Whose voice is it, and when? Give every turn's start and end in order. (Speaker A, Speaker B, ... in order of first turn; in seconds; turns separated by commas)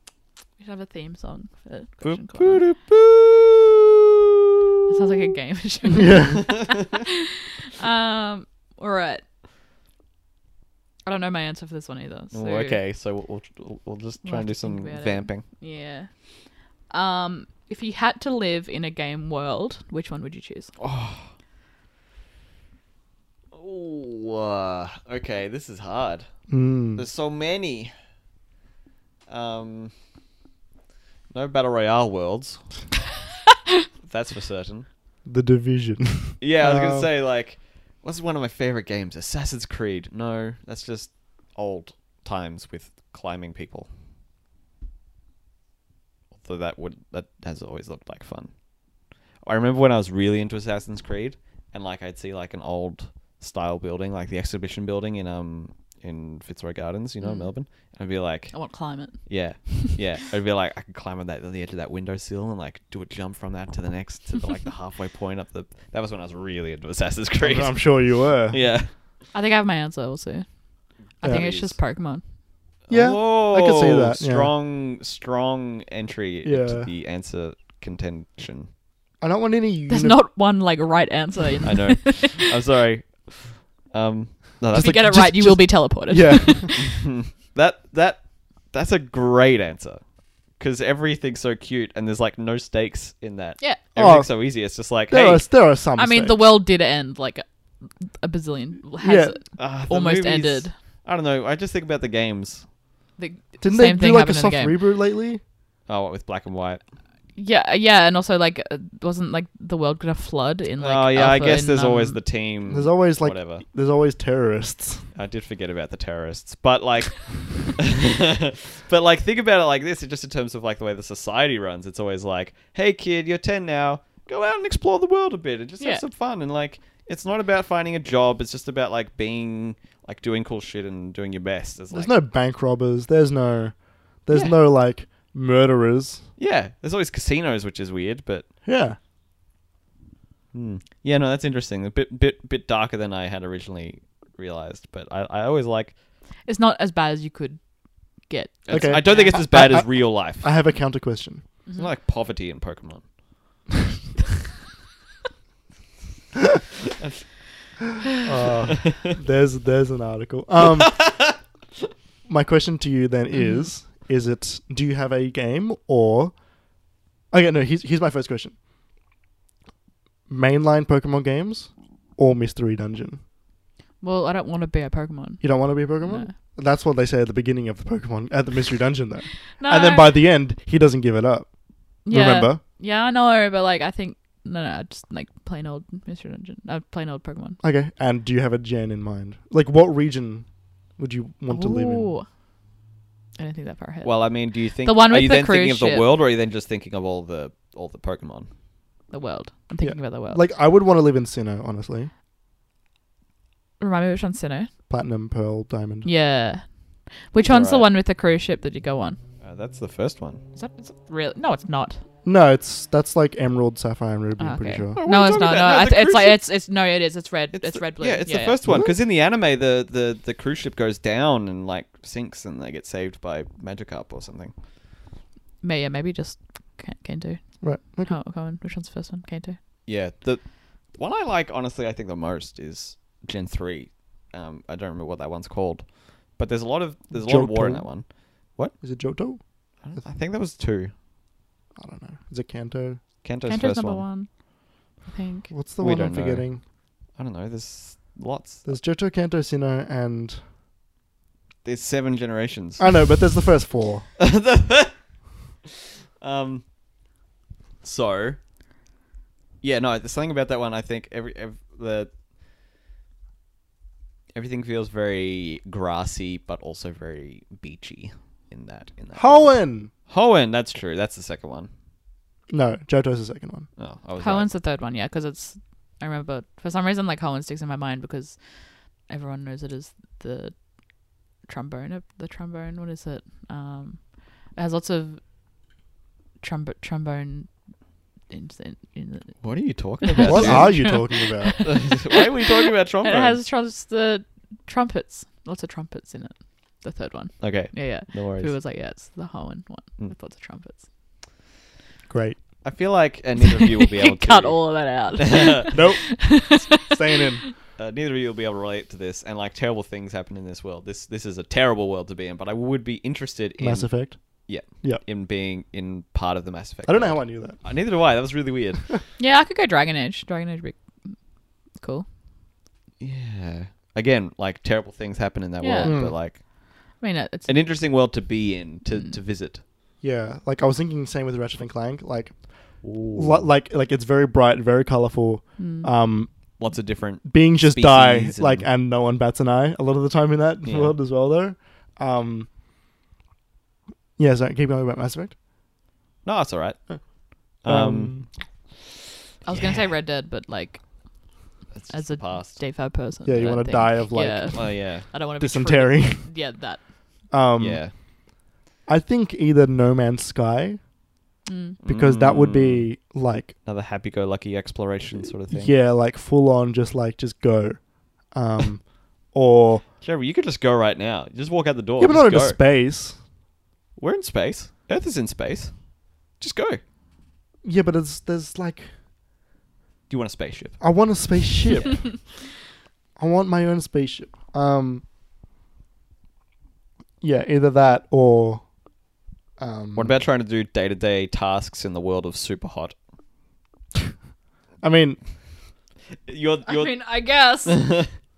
Speaker A: 0.6-2.6, Speaker B: 2.0-3.8, Speaker A: 4.9-9.2, Speaker C: 5.9-6.5, Speaker A: 11.1-12.8, Speaker B: 12.3-15.4, Speaker A: 14.2-16.1, Speaker A: 16.9-20.7, Speaker B: 20.8-21.3, Speaker B: 23.5-26.3, Speaker C: 26.5-27.0, Speaker B: 27.0-27.9, Speaker B: 29.3-29.9, Speaker B: 31.3-32.6, Speaker B: 34.0-34.9, Speaker C: 35.2-37.1, Speaker B: 36.4-43.9, Speaker B: 46.4-48.5, Speaker B: 49.4-58.6, Speaker A: 57.2-57.5, Speaker A: 58.5-59.9, Speaker B: 59.2-68.9, Speaker C: 67.4-68.6, Speaker A: 69.3-70.5, Speaker A: 71.2-72.2, Speaker C: 71.2-71.5, Speaker B: 71.2-71.7, Speaker B: 72.9-78.7, Speaker C: 72.9-74.5, Speaker C: 76.4-76.9, Speaker C: 79.2-80.2, Speaker A: 79.9-82.5, Speaker B: 81.6-85.2, Speaker A: 84.7-86.9, Speaker C: 84.8-86.8, Speaker B: 86.8-90.0, Speaker B: 90.6-95.5, Speaker C: 94.0-94.3, Speaker C: 95.1-96.4, Speaker A: 96.0-97.4, Speaker A: 98.0-100.7, Speaker C: 99.0-99.4, Speaker B: 99.6-102.7, Speaker A: 103.2-104.8, Speaker C: 103.6-105.4, Speaker B: 105.9-106.8, Speaker A: 107.4-112.2, Speaker B: 110.8-113.7, Speaker C: 112.7-115.1, Speaker B: 115.2-132.2, Speaker C: 131.9-136.3, Speaker B: 134.3-134.6, Speaker B: 136.4-138.5, Speaker C: 138.7-139.0, Speaker B: 140.5-145.9, Speaker A: 146.4-147.6, Speaker A: 148.3-149.4, Speaker B: 148.7-150.5, Speaker C: 148.7-151.4, Speaker B: 151.8-153.1, Speaker B: 157.0-157.2, Speaker C: 158.2-161.3, Speaker B: 160.8-161.4, Speaker C: 162.3-166.4, Speaker A: 163.3-163.7, Speaker C: 167.3-168.6, Speaker C: 170.3-173.2, Speaker A: 174.0-176.3, Speaker C: 175.4-181.5, Speaker A: 179.6-180.2, Speaker A: 182.1-187.6, Speaker C: 182.1-182.6, Speaker C: 187.6-192.1, Speaker A: 191.5-192.3, Speaker A: 193.4-196.1, Speaker B: 194.0-198.5, Speaker A: 199.1-200.4, Speaker C: 199.8-202.1, Speaker A: 203.8-204.7, Speaker C: 204.9-206.1, Speaker A: 206.0-209.2, Speaker B: 207.4-207.9, Speaker B: 209.4-210.4, Speaker A: 210.6-212.0, Speaker C: 212.2-215.0, Speaker A: 214.4-218.8, Speaker B: 215.0-216.4, Speaker B: 217.5-224.5, Speaker C: 218.7-218.9, Speaker A: 225.6-229.6, Speaker C: 227.6-228.2, Speaker B: 229.9-238.8, Speaker C: 237.1-237.9, Speaker C: 238.8-239.4, Speaker B: 239.8-240.9, Speaker C: 241.8-243.0, Speaker B: 243.2-244.0, Speaker A: 243.5-244.3, Speaker A: 245.0-245.5, Speaker C: 245.5-246.6, Speaker B: 245.8-246.5, Speaker B: 247.2-248.7, Speaker C: 248.7-250.4, Speaker B: 251.6-252.9, Speaker C: 252.8-254.1, Speaker B: 254.2-255.0, Speaker B: 256.2-256.6, Speaker B: 257.8-258.4, Speaker B: 259.6-262.1, Speaker B: 264.3-271.7, Speaker C: 269.1-269.9, Speaker C: 272.5-273.7, Speaker B: 273.8-274.5, Speaker A: 274.2-278.4, Speaker A: 279.1-280.6, Speaker A: 281.4-285.2, Speaker A: 286.4-287.5, Speaker A: 288.3-300.9, Speaker B: 289.4-290.9, Speaker C: 290.2-291.7, Speaker B: 291.6-293.4, Speaker B: 297.4-298.5, Speaker C: 302.1-302.4, Speaker B: 302.6-305.8, Speaker A: 303.4-307.5, Speaker C: 305.7-307.4, Speaker B: 307.8-318.9, Speaker C: 313.6-315.0, Speaker C: 316.9-317.6, Speaker A: 319.2-321.1, Speaker A: 321.8-322.1, Speaker B: 323.0-326.4, Speaker A: 325.6-326.1, Speaker C: 325.8-326.1, Speaker A: 327.0-327.6, Speaker B: 327.5-329.6, Speaker A: 328.9-329.2, Speaker C: 330.0-336.3, Speaker B: 332.8-333.5, Speaker A: 335.6-335.9, Speaker B: 336.6-338.7, Speaker C: 337.2-342.5, Speaker B: 340.6-340.9, Speaker C: 344.2-345.4, Speaker B: 346.2-346.8, Speaker B: 347.5-348.2, Speaker C: 347.6-348.3, Speaker A: 349.4-350.9, Speaker B: 349.5-349.8, Speaker B: 351.7-352.6, Speaker A: 351.9-356.9, Speaker C: 353.2-354.8, Speaker B: 354.5-355.1, Speaker C: 355.4-356.3, Speaker C: 357.3-357.9, Speaker B: 357.6-357.9, Speaker C: 358.9-360.8, Speaker A: 361.5-361.8, Speaker B: 361.8-362.9, Speaker C: 361.9-363.6, Speaker B: 363.6-365.7, Speaker C: 365.5-369.9, Speaker B: 370.0-372.6, Speaker C: 372.0-373.2, Speaker B: 374.0-375.7, Speaker B: 376.4-376.8, Speaker C: 377.6-378.9, Speaker B: 380.1-380.8, Speaker C: 380.8-382.3, Speaker C: 383.2-385.0, Speaker C: 387.2-388.7, Speaker C: 389.6-390.2, Speaker B: 389.9-392.9, Speaker C: 394.8-395.2, Speaker B: 396.3-397.0, Speaker A: 396.7-397.9, Speaker B: 397.7-398.1